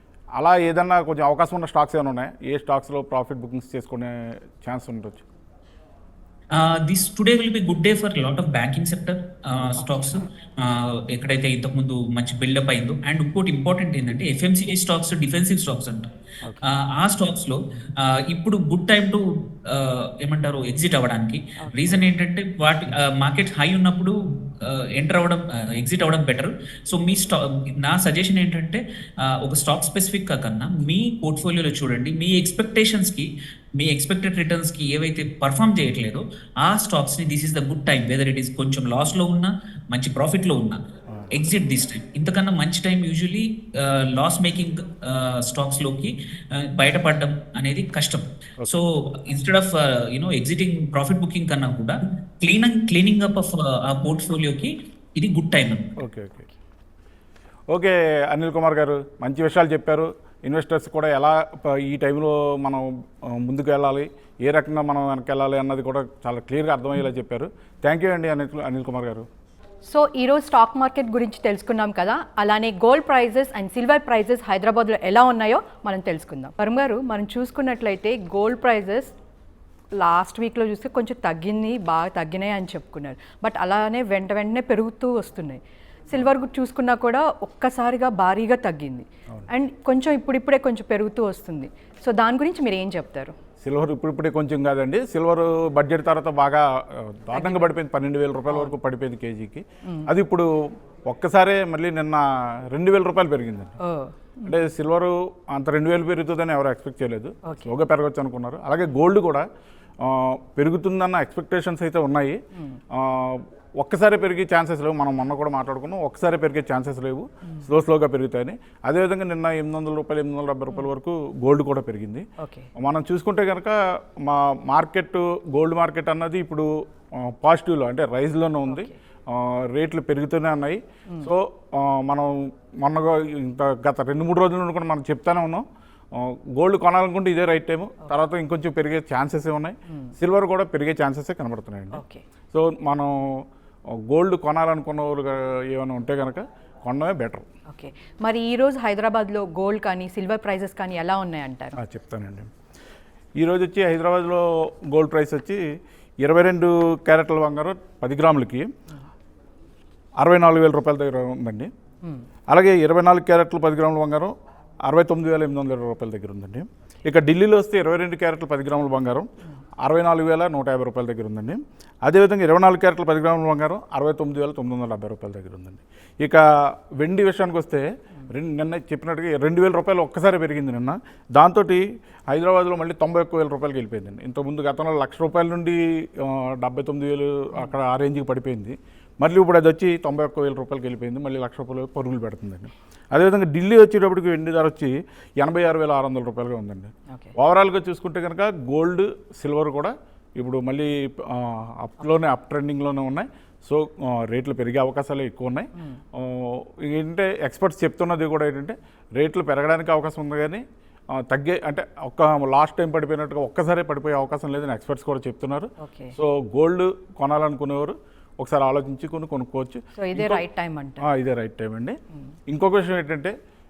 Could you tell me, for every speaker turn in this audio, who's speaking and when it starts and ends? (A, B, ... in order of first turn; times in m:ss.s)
0:00.4-0:05.2 A
0:06.5-0:16.1 B
0:09.8-0:10.1 C
0:16.6-0:40.8 B
0:21.6-0:21.8 C
0:41.3-0:55.9 B
0:56.0-0:56.5 A
0:57.7-1:09.3 A
1:09.8-1:19.1 C
1:19.9-1:25.6 C
1:26.1-1:33.3 C
1:33.6-1:40.5 A
1:37.3-1:37.7 C
1:38.5-1:38.7 C
1:39.8-1:40.1 C
1:41.0-1:43.7 A
1:43.8-1:44.5 C
1:44.4-1:49.4 A
1:47.4-1:47.7 C
1:50.0-1:52.4 A
1:52.5-1:52.8 C
1:52.9-2:02.2 A
2:02.4-2:02.7 C
2:02.8-2:22.0 A
2:08.7-2:08.9 C
2:21.9-2:22.2 C
2:22.5-2:23.4 A
2:24.1-2:27.4 A
2:27.7-2:31.8 C
2:31.8-2:32.5 A
2:33.4-2:35.6 A
2:36.2-2:38.7 A
2:40.2-2:41.7 A
2:42.5-2:44.3 A
2:44.9-2:49.3 A
2:49.8-3:30.6 A
3:17.1-3:17.3 C
3:31.2-3:40.4 A
3:35.8-3:36.1 C
3:40.0-3:41.0 C
3:41.0-3:42.0 A
3:42.5-3:43.3 A